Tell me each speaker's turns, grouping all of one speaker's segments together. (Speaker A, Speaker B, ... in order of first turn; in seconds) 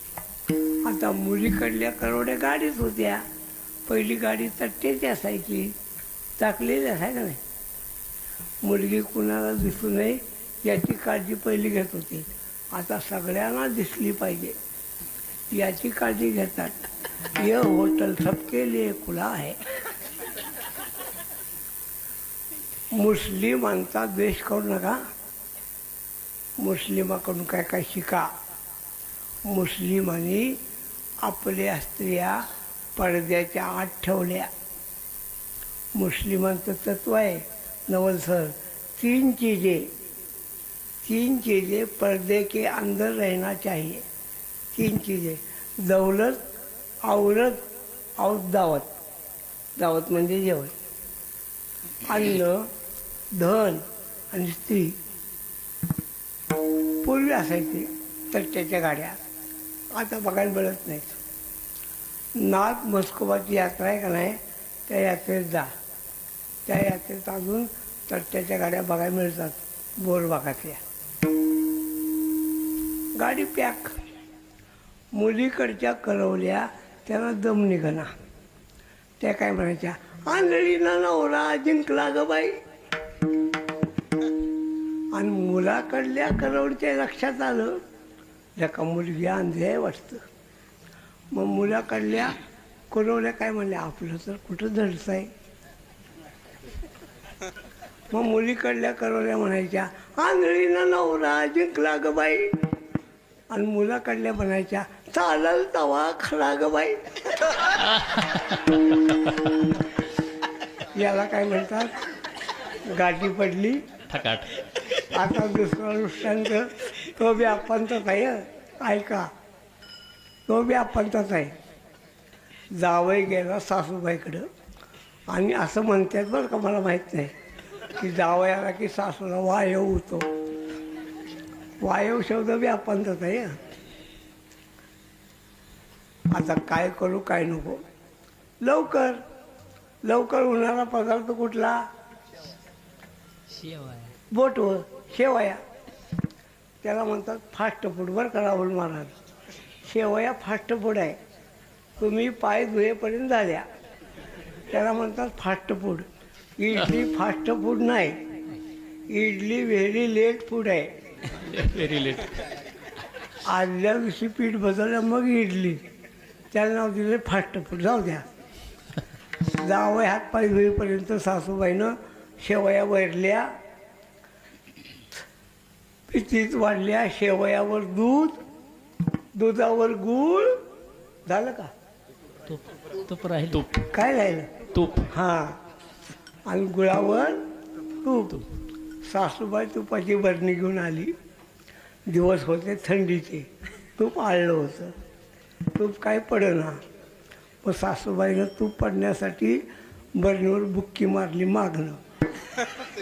Speaker A: 0.8-3.2, 3.9-5.7, 6.4-7.4, 8.6-14.6, 15.5-16.8, 17.3-19.6, 22.9-25.0, 26.6-28.3, 29.4-30.6, 31.2-32.4, 32.9-34.5, 35.9-39.9, 41.0-44.0, 44.7-46.4, 47.0-47.6, 48.2-48.9, 49.8-50.7, 52.0-52.7, 53.3-55.0, 57.0-59.2, 59.9-61.2, 62.4-65.7, 66.7-70.8, 73.2-74.0, 75.1-78.1, 79.2-82.6, 85.1-87.8, 88.6-90.2, 91.3-92.4, 92.9-95.3, 98.1-102.5, 103.5-107.6, 110.8-112.1, 112.6-113.8, 115.0-119.3, 120.5-121.5, 122.7-124.5, 125.3-127.3, 127.9-130.3, 131.8-133.6, 136.3-137.8, 138.6-139.2, 140.0-141.8, 144.3-145.6, 146.8-149.1, 149.8-151.2, 152.0-153.7, 154.7-156.1, 156.6-158.2, 159.1-160.9, 163.4-165.8, 166.5-168.3, 169.4-173.5, 176.1-178.4, 179.3-180.6, 181.2-181.7, 183.8-184.5, 185.1-185.6, 186.4-187.4, 187.9-188.4, 189.0-191.1, 192.1-194.9, 195.7-196.8, 197.6-199.6, 200.2-202.0
Speaker B: 108.0-108.4, 114.1-114.5, 161.3-162.4, 183.3-183.8, 184.7-185.1